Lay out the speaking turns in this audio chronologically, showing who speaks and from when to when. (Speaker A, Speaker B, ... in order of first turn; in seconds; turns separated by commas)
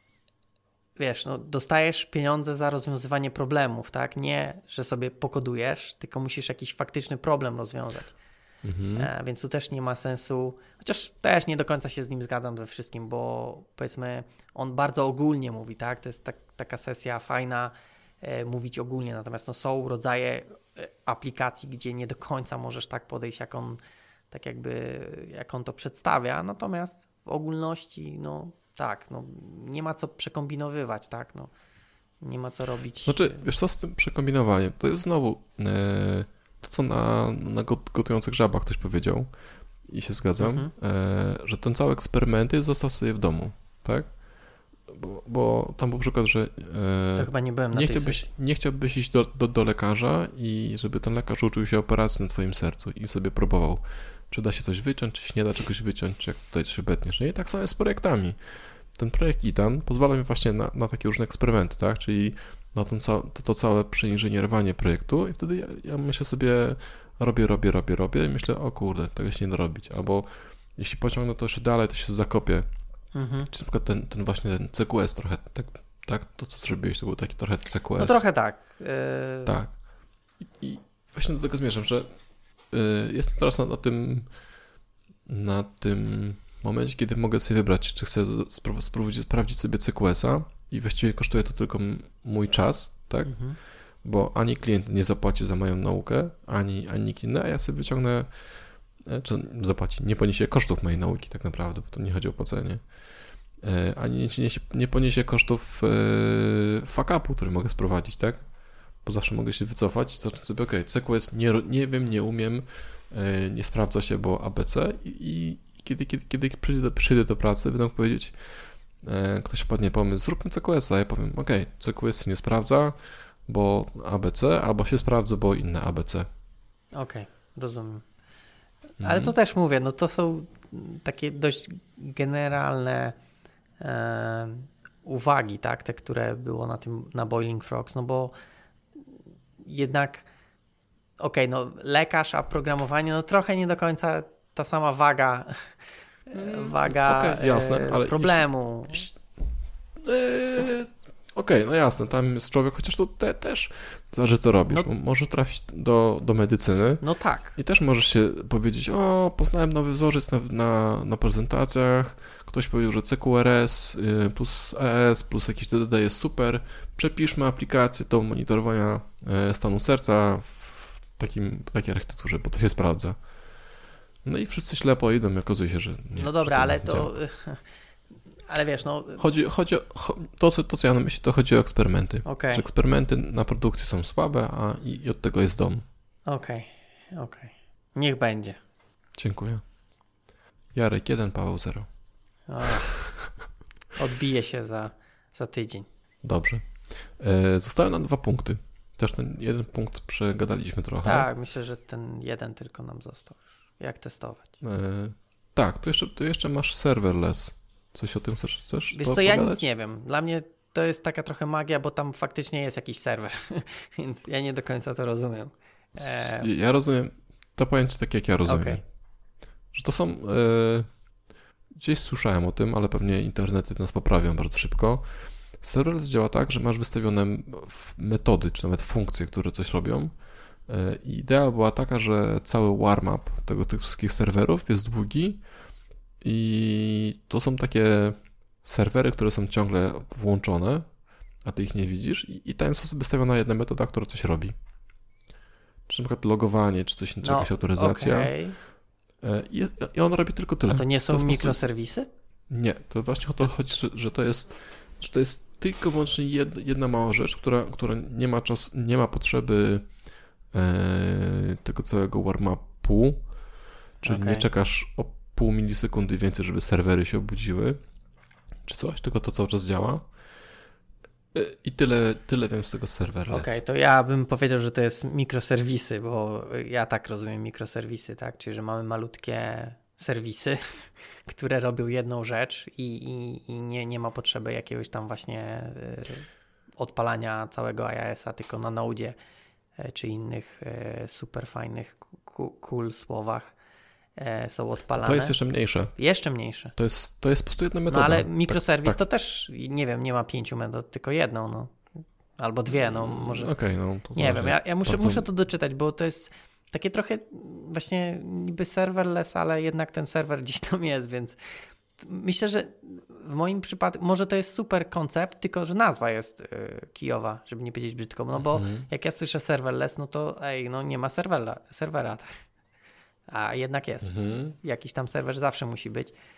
Speaker A: 1.0-8.2, Speaker B: 8.6-9.1, Speaker A: 8.9-23.8, Speaker A: 24.3-31.5, Speaker A: 32.2-33.4, Speaker B: 33.0-39.3, Speaker B: 39.8-44.1, Speaker A: 40.4-40.7, Speaker B: 44.9-58.4, Speaker A: 47.2-48.3, Speaker B: 58.9-72.7, Speaker A: 73.1-73.5, Speaker B: 73.5-78.2, Speaker A: 78.0-79.5, Speaker B: 79.5-79.8, Speaker B: 80.4-82.1, Speaker B: 82.7-84.3, Speaker B: 85.3-93.3, Speaker A: 93.2-93.6, Speaker B: 94.0-98.3, Speaker B: 99.0-102.8, Speaker B: 103.6-108.5, Speaker B: 109.0-126.3, Speaker A: 126.9-128.0, Speaker B: 129.0-129.3, Speaker A: 129.0-133.2, Speaker A: 133.8-138.3, Speaker A: 139.6-140.3, Speaker A: 141.2-149.1, Speaker B: 146.3-149.1, Speaker B: 150.0-157.0, Speaker A: 157.0-157.6, Speaker B: 157.6-173.2, Speaker B: 174.2-177.1, Speaker A: 176.2-177.6, Speaker A: 178.4-179.2, Speaker B: 179.2-185.8, Speaker A: 182.2-182.6, Speaker A: 186.2-188.6, Speaker B: 189.2-189.6, Speaker B: 190.7-191.9, Speaker A: 192.5-193.0, Speaker B: 192.9-193.3, Speaker A: 193.9-195.9, Speaker B: 196.2-201.3, Speaker A: 201.0-204.6, Speaker B: 204.6-209.6, Speaker A: 208.9-216.5, Speaker B: 216.0-218.8, Speaker A: 218.5-218.8, Speaker B: 219.7-220.9, Speaker B: 221.8-230.1, Speaker B: 230.7-235.4, Speaker B: 236.2-240.9, Speaker B: 241.4-244.5, Speaker B: 245.9-248.3, Speaker A: 247.2-248.6, Speaker B: 249.2-251.6, Speaker A: 250.7-252.1, Speaker B: 252.5-259.9, Speaker B: 260.5-263.2, Speaker A: 264.0-264.4, Speaker B: 264.0-267.8, Speaker B: 268.6-270.1, Speaker B: 271.3-273.6, Speaker A: 273.3-289.1, Speaker A: 289.8-293.5, Speaker A: 294.1-295.4, Speaker B: 295.0-295.9, Speaker A: 295.9-296.7, Speaker B: 296.8-299.0, Speaker A: 297.9-301.8, Speaker A: 302.4-303.5, Speaker B: 302.9-305.2, Speaker A: 304.1-311.4, Speaker A: 312.0-322.3, Speaker B: 318.3-318.9, Speaker A: 323.3-326.1, Speaker B: 324.0-324.6